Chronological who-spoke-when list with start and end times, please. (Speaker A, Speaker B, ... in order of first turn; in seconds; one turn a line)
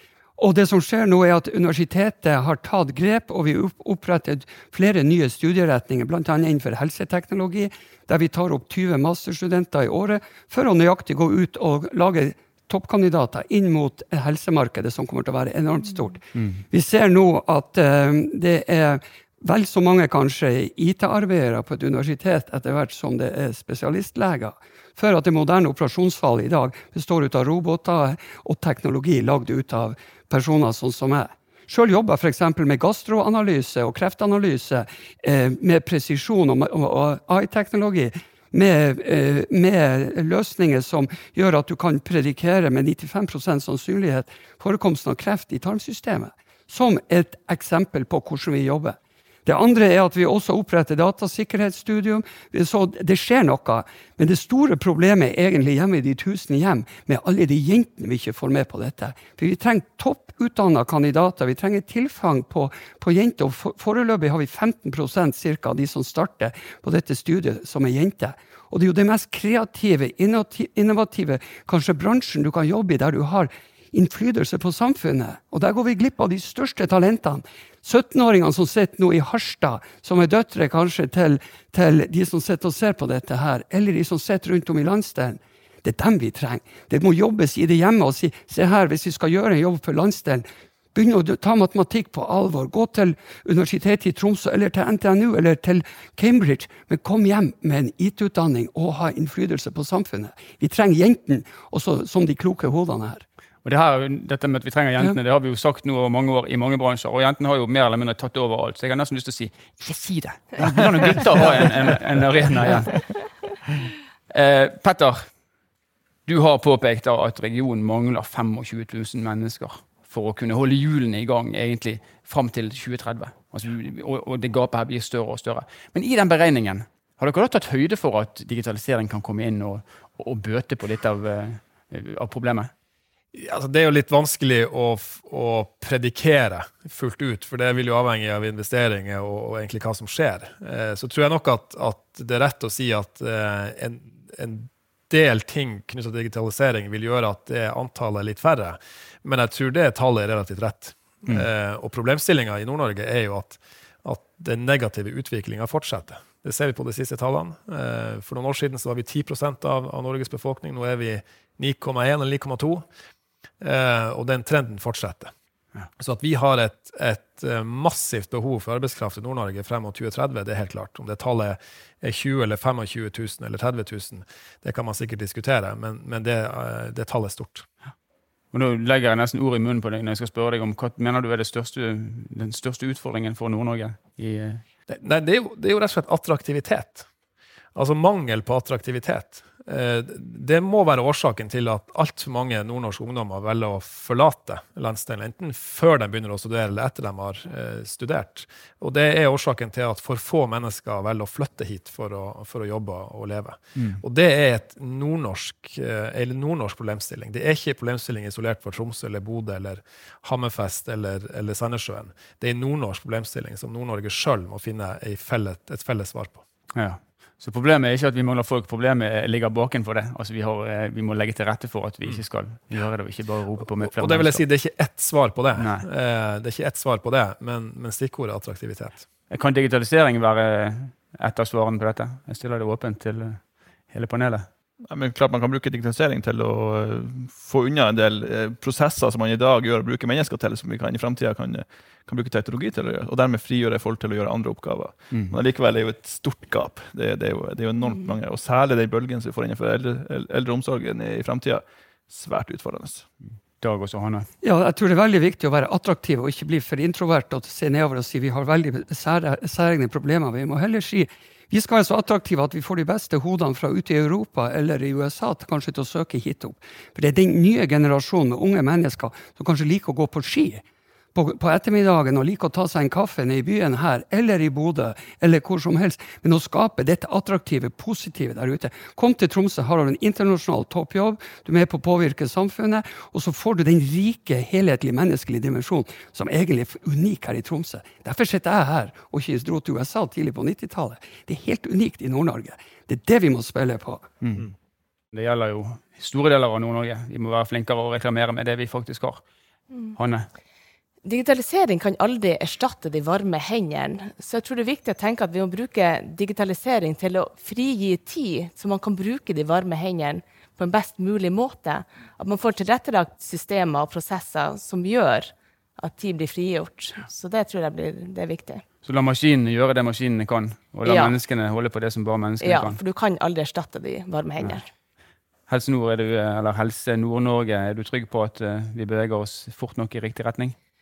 Speaker A: 0.4-103.2
Speaker B: 16.3-16.6
Speaker B: 103.6-113.1
Speaker B: 114.3-115.2
Speaker B: 116.2-132.7
Speaker C: 133.3-162.8
Speaker C: 163.6-165.3
Speaker C: 166.0-177.7
Speaker B: 178.5-184.6
Speaker C: 184.9-187.1
Speaker C: 187.7-216.4
Speaker B: 216.7-224.4
Speaker C: 223.8-229.0
Speaker B: 225.6-225.8
Speaker B: 229.3-234.5
Speaker D: 234.9-253.1
Speaker B: 245.1-245.4
Speaker B: 253.3-254.3
Speaker A: 254.4-294.1
Speaker B: 295.1-299.2
Speaker B: 299.9-300.3
Speaker E: 301.0-318.6
Speaker B: 318.8-322.8
Speaker E: 320.8-321.2
Speaker E: 322.4-324.6
Speaker B: 325.5-330.6